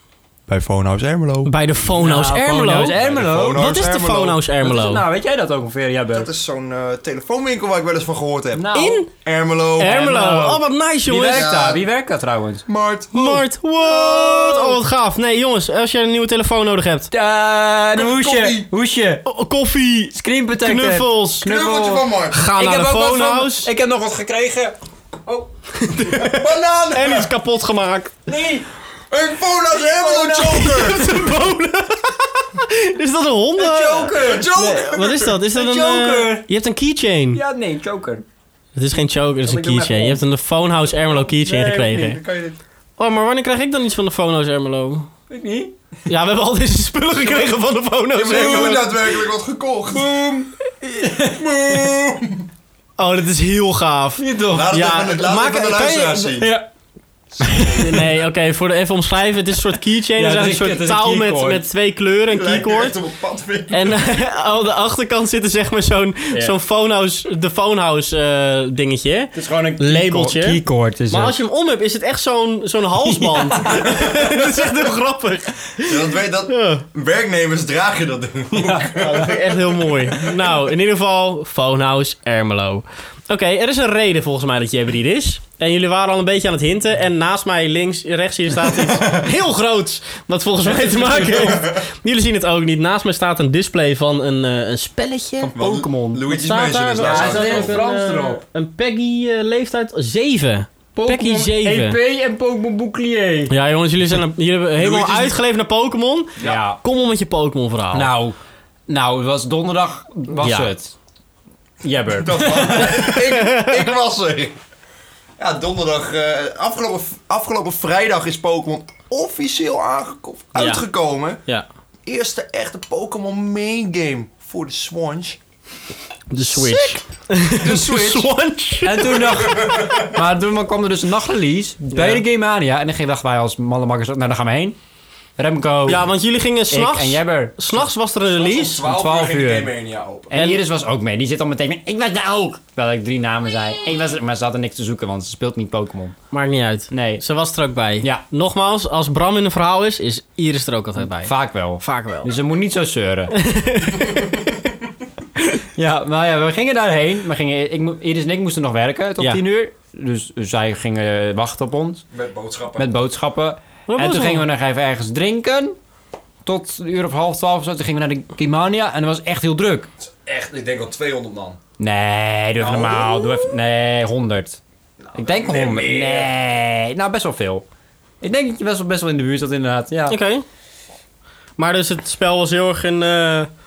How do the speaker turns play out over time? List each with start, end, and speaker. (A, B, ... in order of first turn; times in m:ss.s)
0:00.5-0:01.5 A
0:01.4-0:03.0 B
0:01.9-0:03.8 C
0:03.0-0:04.4 A
0:03.5-0:05.0 B
0:04.6-0:06.3 C
0:06.1-0:10.0 A
0:08.5-0:09.0 C
0:08.7-0:09.1 B
0:09.8-0:11.5 B
0:09.8-0:12.6 C
0:11.3-0:11.8 A
0:12.7-0:13.4 A
0:13.1-0:17.1 B
0:13.8-0:14.8 C
0:17.1-0:19.2 C
0:17.9-0:18.7 A
0:19.2-0:21.5 B
0:20.1-0:25.5 C
0:21.4-0:22.4 A
0:22.3-0:23.7 B
0:25.8-0:28.1 B
0:26.0-0:27.3 A
0:28.2-0:28.6 C
0:29.1-0:31.2 A
0:29.7-0:30.9 C
0:30.6-0:37.4 B
0:33.6-0:34.5 C
0:34.1-0:35.4 A
0:35.5-0:36.4 C
0:37.3-0:38.2 C
0:38.8-0:42.2 B
0:39.4-0:40.2 C
0:41.4-0:42.2 C
0:41.9-0:42.6 A
0:43.0-0:45.1 B
0:45.3-0:45.7 C
0:46.1-0:49.0 B
0:48.1-0:50.2 A
0:49.9-0:51.9 C
0:51.4-0:52.5 A
0:53.0-0:56.4 B
0:54.2-0:54.8 C
0:54.5-0:56.5 A
0:56.4-0:56.7 C
0:57.4-0:58.0 C
0:57.7-1:03.0 B
1:00.2-1:01.7 C
1:02.3-1:04.0 A
1:03.7-1:16.8 B
1:09.3-1:11.4 C
1:13.0-1:14.0 C
1:13.8-1:14.3 A
1:15.8-1:19.5 A
1:18.5-1:19.4 C
1:19.0-1:35.5 B
1:30.6-1:31.6 C
1:31.4-1:31.8 A
1:35.4-1:37.8 A
1:35.6-1:36.2 C
1:36.3-1:42.0 B
1:37.0-1:38.4 C
1:40.9-1:43.5 C
1:43.5-1:48.1 B
1:44.8-1:45.3 A
1:46.4-1:46.8 C
1:47.9-1:48.4 C
1:48.9-1:50.9 C
1:50.4-1:50.7 B
1:51.8-1:53.1 C
1:52.2-1:54.6 A
1:53.0-1:53.8 B
1:55.4-2:01.4 A
2:00.5-2:00.8 B
2:02.0-2:05.4 A
2:06.3-2:10.0 B
2:06.5-2:06.9 A
2:07.5-2:08.3 A
2:08.8-2:14.8 C
2:09.2-2:10.1 A
2:11.9-2:12.2 B
2:15.4-2:16.1 C
2:15.8-2:18.8 B
2:16.7-2:17.7 C
2:18.3-2:20.3 A
2:18.8-2:19.7 C
2:20.3-2:26.1 C
2:20.3-2:20.6 B
2:26.3-2:32.3 B
2:26.9-2:27.2 C
2:31.2-2:33.3 C
2:33.3-2:34.4 B
2:35.7-2:42.0 C
2:42.1-2:42.9 A
2:42.8-2:45.8 C
2:43.9-2:44.4 B
2:46.4-2:49.9 C
2:50.0-2:51.6 A
2:51.8-2:54.6 C
2:52.6-2:53.5 A
2:55.1-2:56.3 A
2:55.1-2:57.6 C
2:58.2-3:00.2 C
3:00.1-3:00.4 B
3:01.6-3:03.5 B